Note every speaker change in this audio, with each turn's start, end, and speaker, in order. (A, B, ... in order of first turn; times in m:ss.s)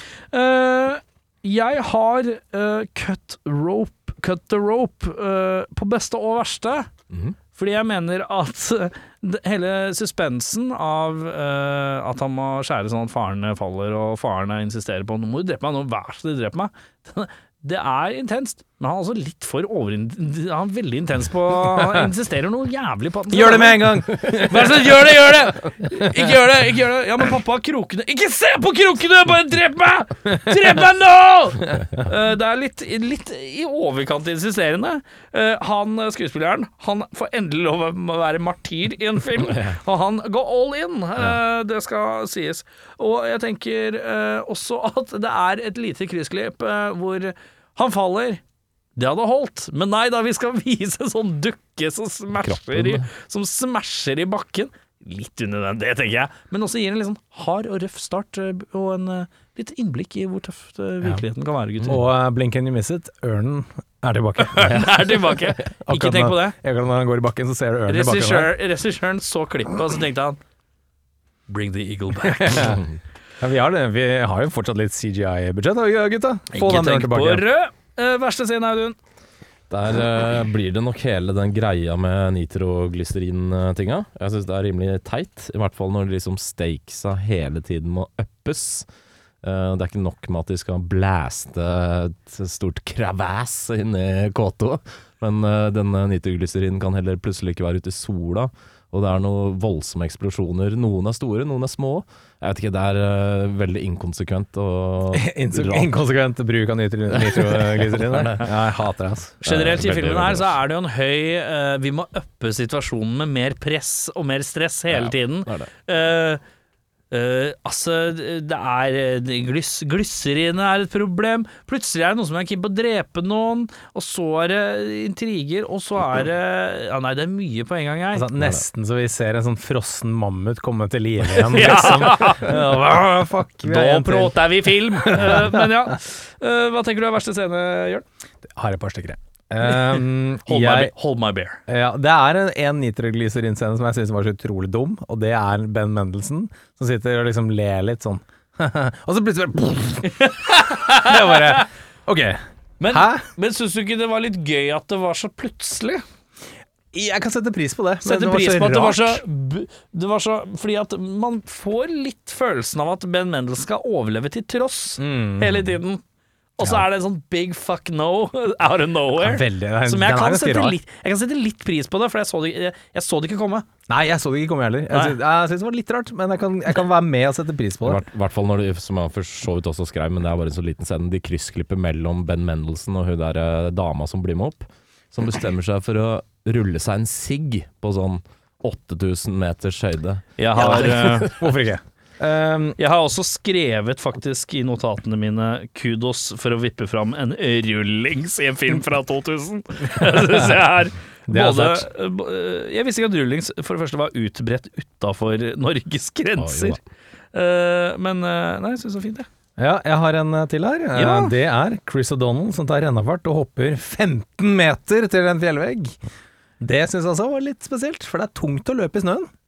0:00.3-0:06.9 A
0:07.1-0:07.4 B
0:07.5-0:48.4 A
0:23.3-0:24.8 C
0:49.0-1:02.0 A
0:52.4-0:53.1 B
1:01.8-1:05.1 C
1:04.5-1:06.5 A
1:05.8-1:08.5 C
1:07.9-1:10.4 A
1:11.5-1:12.8 A
1:12.2-1:12.8 C
1:13.4-1:17.4 C
1:16.5-1:19.0 A
1:19.7-1:28.9 B
1:29.4-1:45.9 B
1:45.1-1:49.4 C
1:47.1-1:48.7 B
1:49.4-1:50.6 B
1:49.4-1:56.4 A
1:54.9-1:55.7 B
1:57.1-2:08.3 A
2:08.1-2:15.9 C
2:11.4-2:13.0 A
2:13.6-2:18.0 A
2:18.5-2:20.9 C
2:19.7-2:21.6 A
2:21.7-2:33.2 C
2:30.0-2:31.7 A
2:32.8-2:36.0 A
2:36.9-2:39.2 C
2:38.0-2:46.0 A
2:45.0-2:45.6 C
2:46.6-2:53.7 A
2:49.2-2:50.8 C
2:53.9-2:58.0 C
2:54.9-2:55.2 A
2:57.8-3:11.5 B
3:10.4-3:11.3 A
3:10.6-3:12.8 C
3:12.8-3:26.8 A
3:20.1-3:20.4 C
3:21.3-3:21.9 C
3:26.4-3:26.8 B
3:27.3-3:29.3 A
3:29.6-3:36.0 C
3:30.9-3:31.3 A
3:36.6-3:39.3 C